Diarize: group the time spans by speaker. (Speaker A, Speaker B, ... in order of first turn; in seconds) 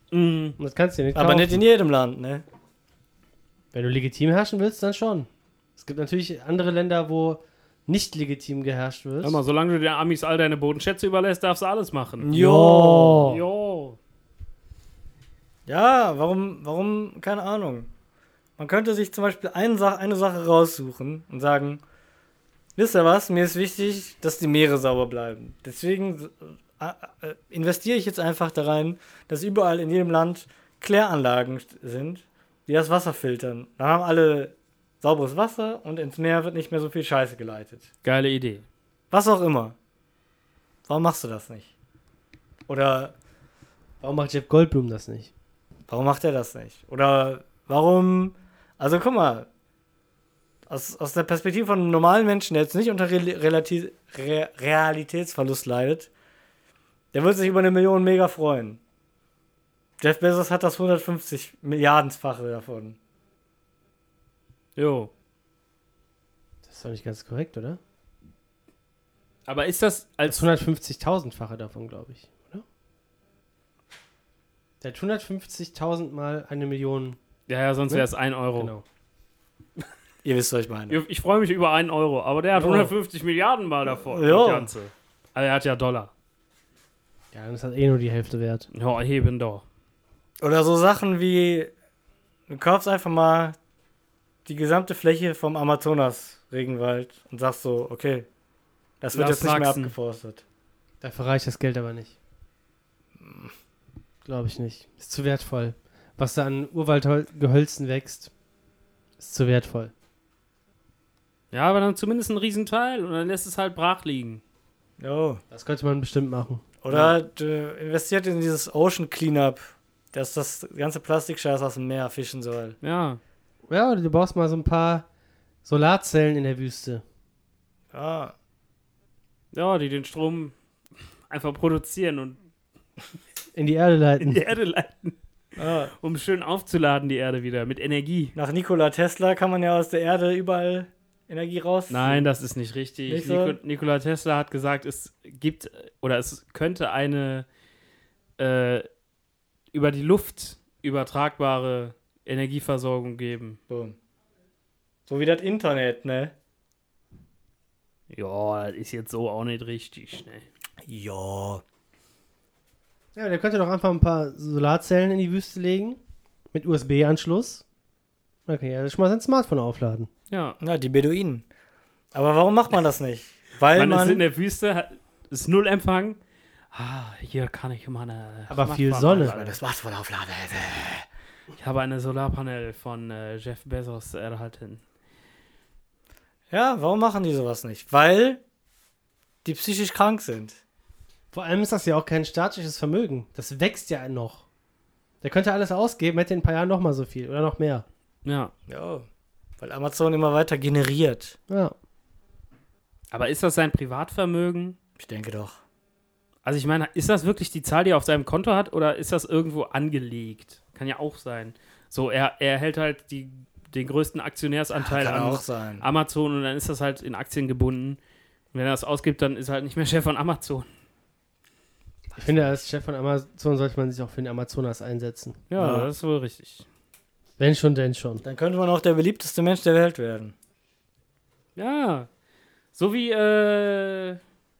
Speaker A: 0.1-0.6, 9.2-12.3, 13.2-14.0, 38.0-38.6, 64.8-65.1, 69.5-70.5, 77.5-78.7, 80.9-86.1, 88.7-89.6, 99.1-99.9, 111.5-114.4, 122.8-123.2, 129.5-130.5, 131.3-132.4, 134.2-135.2, 136.0-138.3, 141.9-147.5, 148.4-148.9, 149.7-153.6, 158.1-160.4, 170.3-170.6, 173.8-176.2, 176.7-179.6, 181.6-184.8, 198.2-198.5, 203.1-204.8, 206.4-218.0, 218.5-220.7, 225.5-226.7, 231.6-232.1, 232.7-234.2
Speaker B: 0.6-1.6, 3.7-9.4, 12.3-13.4, 44.0-45.3, 66.7-67.8, 70.3-72.7, 74.8-77.2, 78.6-78.8, 87.3-88.7, 101.0-102.2, 104.2-108.3, 109.2-109.9, 115.5-117.1, 123.7-125.1, 125.7-127.0, 133.6-134.4, 163.2-166.0, 166.5-167.6, 168.5-170.1, 178.5-179.3, 191.3-194.5, 195.2-197.8, 201.5-201.8, 222.2-225.4, 227.4-228.2
Speaker C: 1.1-2.4, 12.2-13.2, 15.7-17.9, 18.6-21.8, 22.8-37.9, 39.1-39.8, 40.9-41.7, 42.7-43.1, 45.9-49.5, 50.7-56.1, 57.1-58.8, 60.0-63.0, 80.2-81.0, 82.5-82.9, 84.1-84.7, 90.4-91.7, 92.5-93.6, 94.5-98.3, 99.0-100.4, 103.2-103.5, 115.0-115.4, 116.8-122.8, 127.9-128.3, 135.6-135.9, 138.3-142.3, 143.1-143.6, 153.7-154.0, 155.1-156.3, 160.9-161.6, 170.6-171.4, 172.1-174.2, 179.1-181.1, 186.5-188.4, 189.4-190.6, 198.7-199.1, 199.6-201.4, 205.0-205.6, 214.8-215.8, 222.1-222.5, 225.6-225.9, 228.2-230.3